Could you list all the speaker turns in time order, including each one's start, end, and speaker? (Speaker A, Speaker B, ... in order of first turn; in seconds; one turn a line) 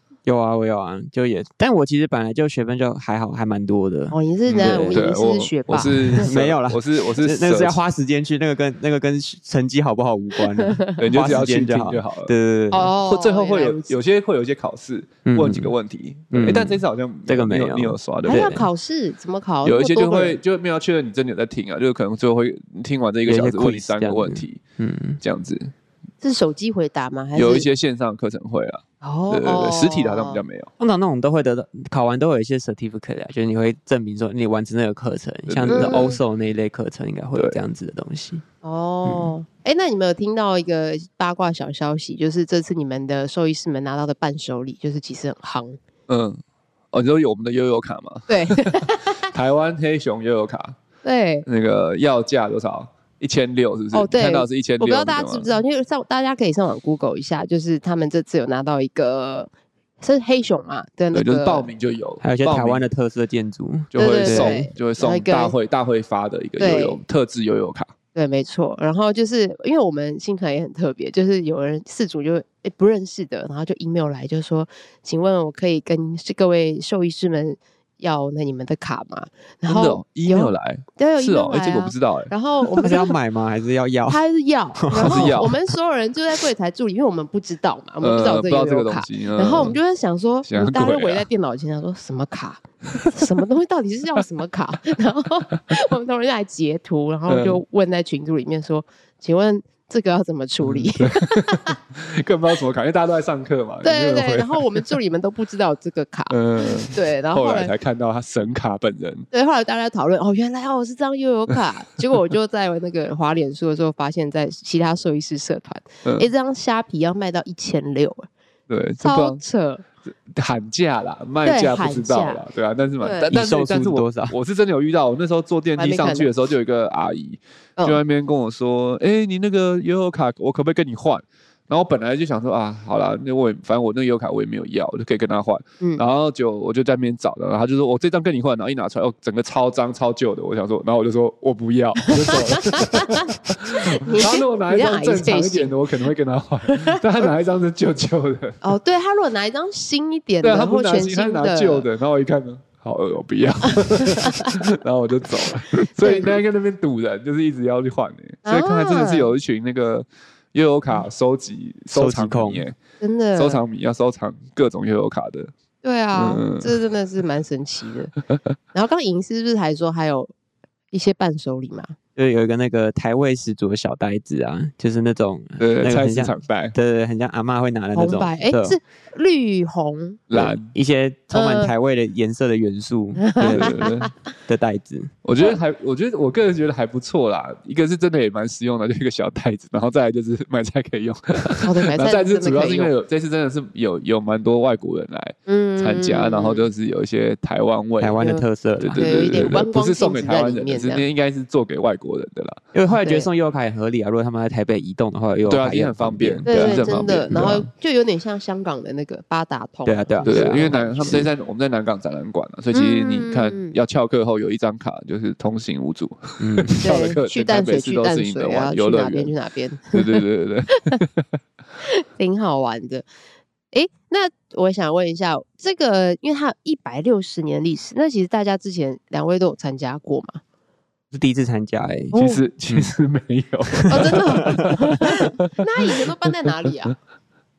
Speaker A: 0.3-5.1
Speaker B: 4.1-6.3
Speaker C: 4.5-7.8
Speaker A: 5.8-12.9
Speaker C: 11.0-12.3
Speaker B: 12.7-13.9
Speaker C: 13.1-18.6
Speaker A: 15.3-15.7
Speaker A: 16.3-18.7
Speaker B: 18.3-20.4
Speaker C: 19.6-24.6
Speaker A: 23.3-25.2
Speaker C: 25.2-25.7
Speaker B: 26.2-27.7
Speaker C: 27.4-30.7
Speaker B: 29.0-30.4
Speaker A: 30.8-38.4
Speaker C: 35.5-36.1
Speaker B: 35.7-36.2
Speaker B: 38.6-45.8
Speaker A: 39.1-39.3
Speaker C: 46.1-46.4
Speaker C: 46.9-50.8
Speaker B: 48.3-49.3
Speaker B: 51.0-51.5
Speaker C: 51.5-55.5
Speaker B: 53.9-59.5
Speaker B: 60.0-61.7
Speaker C: 61.1-62.9
Speaker A: 62.2-64.6
Speaker C: 63.9-67.9
Speaker B: 64.0-65.5
Speaker B: 66.6-67.0
Speaker B: 68.2-83.1
Speaker C: 79.7-82.8
Speaker A: 82.8-84.2
Speaker B: 84.1-101.8
Speaker A: 84.8-85.5
Speaker C: 84.9-85.6
Speaker C: 88.0-89.8
Speaker C: 90.5-91.3
Speaker C: 97.3-97.6
Speaker C: 100.6-105.0
Speaker B: 103.8-107.7
Speaker C: 106.3-109.3
Speaker B: 109.3-118.3
Speaker C: 116.0-116.3
Speaker C: 118.7-119.4
Speaker B: 119.0-119.8
Speaker C: 120.3-148.6
Speaker B: 121.4-122.4
Speaker B: 123.0-123.3
Speaker A: 123.3-124.4
Speaker B: 125.8-126.3
Speaker B: 142.0-145.8
Speaker B: 146.7-147.0
Speaker B: 148.6-151.9
Speaker C: 150.4-162.8
Speaker B: 153.7-154.6
Speaker B: 156.0-156.4
Speaker B: 158.5-159.3
Speaker A: 161.9-162.7
Speaker B: 163.0-163.6
Speaker C: 163.3-165.5
Speaker B: 165.8-168.1
Speaker C: 166.1-166.8
Speaker B: 168.7-170.3
Speaker B: 170.9-171.9
Speaker A: 172.2-178.8
Speaker C: 175.6-176.7
Speaker B: 177.9-180.4
Speaker C: 180.3-180.7
Speaker A: 180.3-183.9
Speaker B: 181.3-181.7
Speaker B: 183.2-184.1
Speaker C: 183.4-184.1
Speaker A: 184.5-185.1
Speaker C: 185.2-198.2
Speaker B: 191.6-192.9
Speaker B: 195.5-196.7
Speaker A: 198.0-199.6
Speaker C: 198.8-202.6
Speaker B: 199.0-201.0
Speaker A: 202.7-207.0
Speaker B: 202.9-203.3
Speaker C: 205.5-207.7
Speaker B: 206.5-211.2
Speaker A: 209.9-211.3
Speaker C: 210.2-219.3
Speaker B: 212.7-213.8
Speaker A: 216.4-217.0
Speaker B: 216.8-221.0
Speaker C: 219.9-221.3
Speaker B: 221.8-223.1
Speaker B: 223.7-230.4
Speaker A: 231.1-232.2
Speaker B: 232.1-232.4
Speaker C: 232.2-236.7
Speaker A: 233.7-235.0
Speaker B: 233.9-237.0